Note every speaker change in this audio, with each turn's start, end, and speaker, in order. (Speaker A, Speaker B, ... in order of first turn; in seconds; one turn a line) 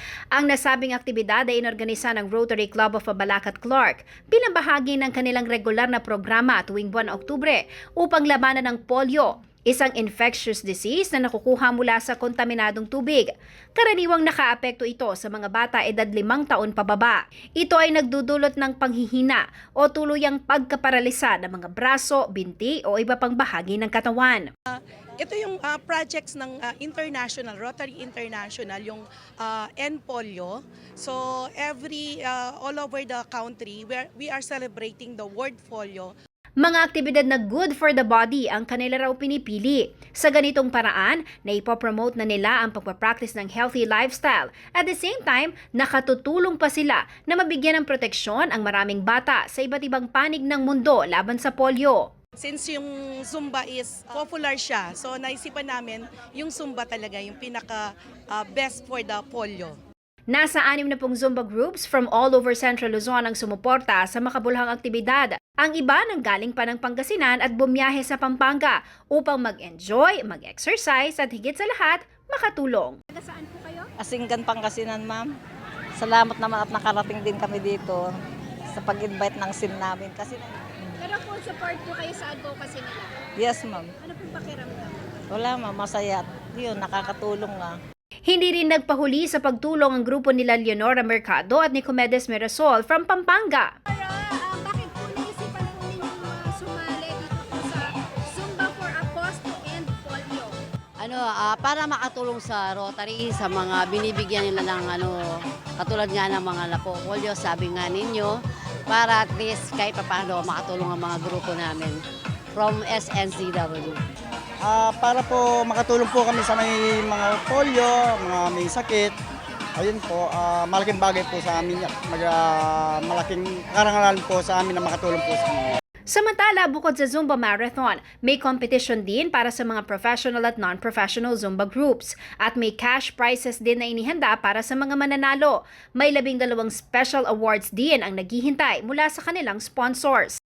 Speaker A: 0.3-24.5
Speaker B: 24.7-36.1
Speaker A: 36.6-52.1
Speaker B: 52.4-59.8
Speaker A: 60.3-73.0
Speaker C: 73.1-73.9
Speaker D: 74.0-75.3
Speaker D: 76.0-78.1
Speaker D: 78.7-81.0
Speaker C: 81.0-83.2
Speaker D: 83.4-83.9
Speaker C: 84.0-85.1
Speaker D: 85.3-87.8
Speaker A: 88.2-93.7
Speaker C: 93.9-100.6
Speaker E: 101.0-108.4
Speaker E: 108.9-112.0
Speaker E: 112.5-114.0
Speaker F: 114.6-119.1
Speaker F: 119.8-125.8
Speaker A: 126.1-140.4